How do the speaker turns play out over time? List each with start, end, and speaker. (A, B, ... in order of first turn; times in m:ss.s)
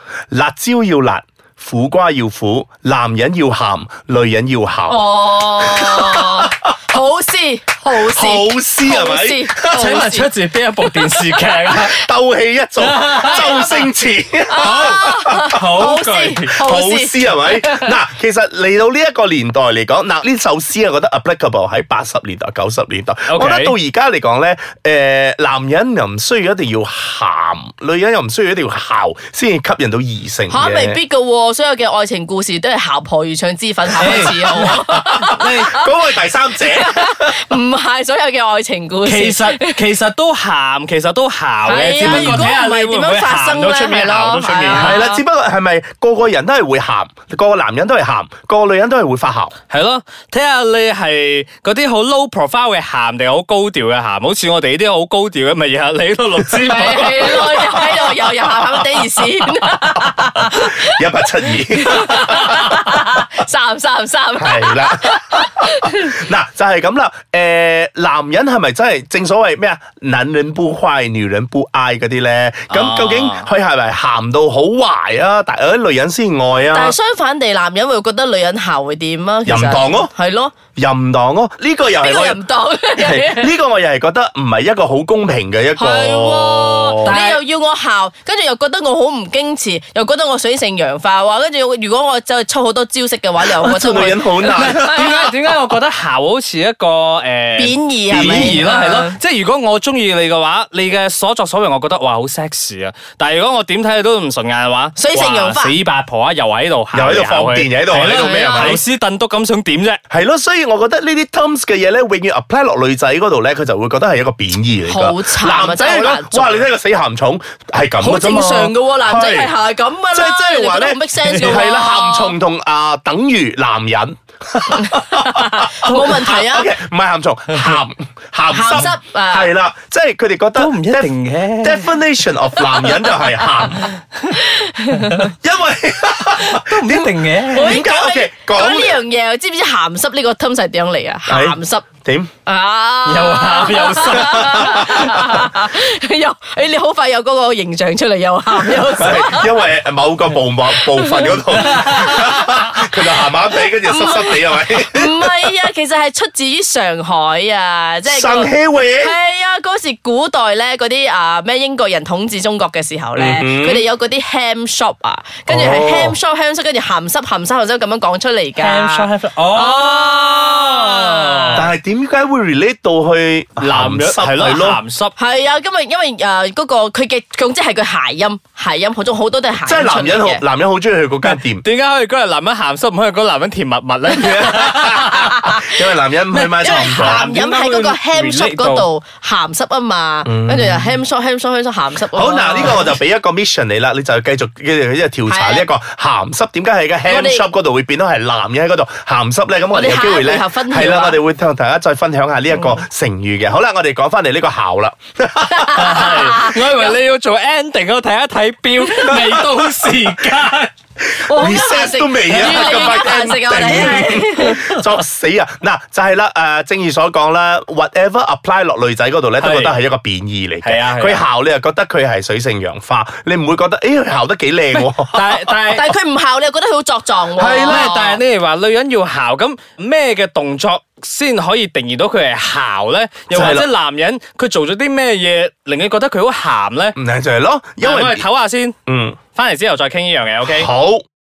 0:00.3-0:06.5 A
0:04.9-0:10.3 B
0:08.0-0:10.0 A
0:09.7-0:12.0 C
0:11.7-0:15.6 A
0:12.8-0:13.8 C
0:13.2-0:13.8 B
0:14.5-0:17.4 B
0:14.6-0:16.6 C
0:16.5-0:31.0 A
0:23.3-0:23.7 C
0:30.5-0:35.8 B
0:34.0-0:37.4 A
0:34.0-0:35.7 C
0:36.5-0:39.8 B
0:39.0-0:45.0 C
0:41.6-0:45.2 B
0:42.0-0:42.5 A
0:44.7-0:49.5 A
0:49.7-0:57.8 C
0:56.6-1:06.2 B
0:57.6-0:59.1 A
1:00.2-1:03.1 A
1:04.4-1:17.0 A
1:12.7-1:13.5 C
1:16.7-1:20.5 B
1:19.4-1:20.1 A
1:20.8-1:22.4 A
1:22.0-1:23.5 B
1:22.9-1:27.2 A
1:25.8-1:34.9 B
1:26.9-1:27.4 C
1:33.4-1:35.1 A
1:34.4-1:50.0 C
1:37.6-1:39.2 B
1:38.1-1:38.6 A
1:45.0-1:45.8 B
1:46.9-1:48.8 A
1:48.1-1:48.8 B
1:50.1-1:59.5 A
1:54.8-1:56.7 B
1:58.0-2:02.4 B
2:00.1-2:13.9 A
2:01.3-2:01.6 C
2:04.7-2:06.7 B
2:05.8-2:06.2 C
2:08.5-2:09.5 B
2:10.6-2:12.0 C
2:13.8-2:14.2 C
2:14.3-2:15.3 B
2:14.9-2:15.3 C
2:15.3-2:19.0 A
2:16.4-2:17.8 C
2:17.5-2:21.8 B
2:21.3-2:22.3 A
2:22.4-2:29.6 B
2:23.0-2:25.2 C
2:24.2-2:25.4 A
2:28.9-2:35.5 A
2:30.7-2:51.6 B
2:31.6-2:32.3 C
2:38.0-2:39.1 A
2:43.2-2:43.8 A
2:45.5-2:46.2 A
2:48.6-2:51.7 C
2:51.6-2:54.8 A
2:53.6-2:55.1 C
2:55.2-3:00.4 B
2:59.6-3:01.6 A
3:01.2-3:05.6 C
3:04.1-3:07.3 A
3:04.8-3:05.8 B
3:06.3-3:08.9 C
3:06.6-3:13.0 B
3:10.2-3:11.0 A
3:12.1-3:26.1 A
3:15.3-3:15.7 B
3:17.0-3:17.5 B
3:19.7-3:21.2 B
3:22.5-3:22.8 B
3:25.5-3:26.9 B
3:25.7-3:30.7 C
3:29.1-3:29.9 A
3:31.1-3:45.6 A
3:31.2-3:34.6 B
3:32.5-3:32.9 C
3:33.6-3:34.8 C
3:39.4-3:39.8 C
3:40.6-3:41.2 C
3:44.7-3:45.9 C
3:45.7-3:48.2 B
3:47.4-3:48.1 A
3:47.6-3:57.0 C
3:53.3-3:53.7 A
3:57.0-3:58.2 A
3:57.8-3:58.8 C
3:58.9-3:59.2 A
3:59.3-4:00.7 C
4:00.4-4:01.0 A